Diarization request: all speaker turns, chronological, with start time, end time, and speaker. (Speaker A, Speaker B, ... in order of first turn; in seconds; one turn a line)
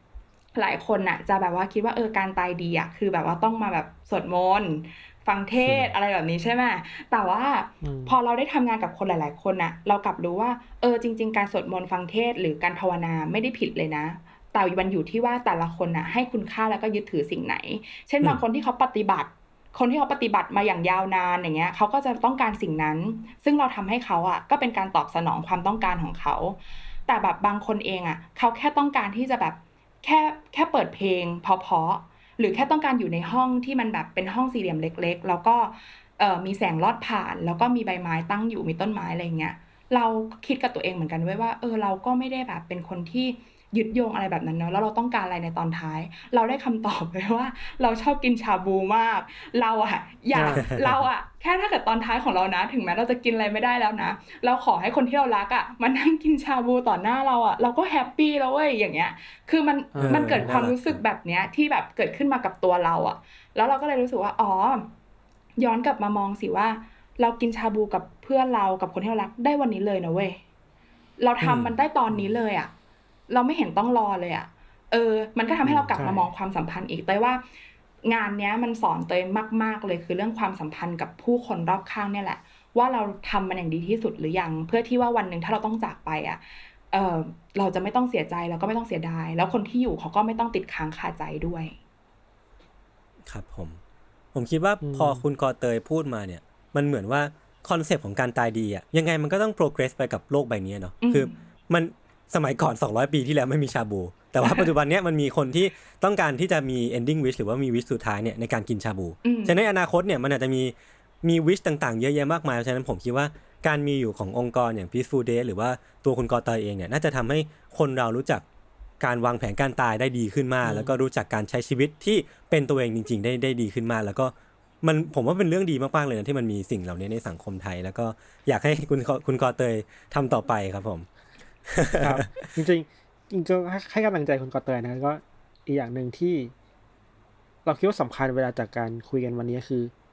Speaker A: 0.6-64.9
Speaker B: 5.7-5.9
Speaker C: 7.8-8.2
Speaker C: 50.3-50.7
Speaker B: 50.5-51.0
Speaker C: 59.9-60.6
Speaker B: 60.0-61.0
Speaker A: 65.6-70.4
Speaker A: 71.2-72.7
Speaker B: 71.4-72.3
Speaker A: 73.3-77.4
Speaker B: 75.6-76.1
Speaker C: 76.0-76.2
Speaker A: 78.0-91.8
Speaker B: 93.3-93.8
Speaker B: 94.3-118.4
Speaker C: 94.8-95.2
Speaker A: 101.0-101.4
Speaker A: 109.2-109.6
Speaker B: 119.0-131.1
Speaker C: 120.6-121.0
Speaker B: 131.7-132.5
Speaker C: 132.0-136.5
Speaker C: 137.6-139.9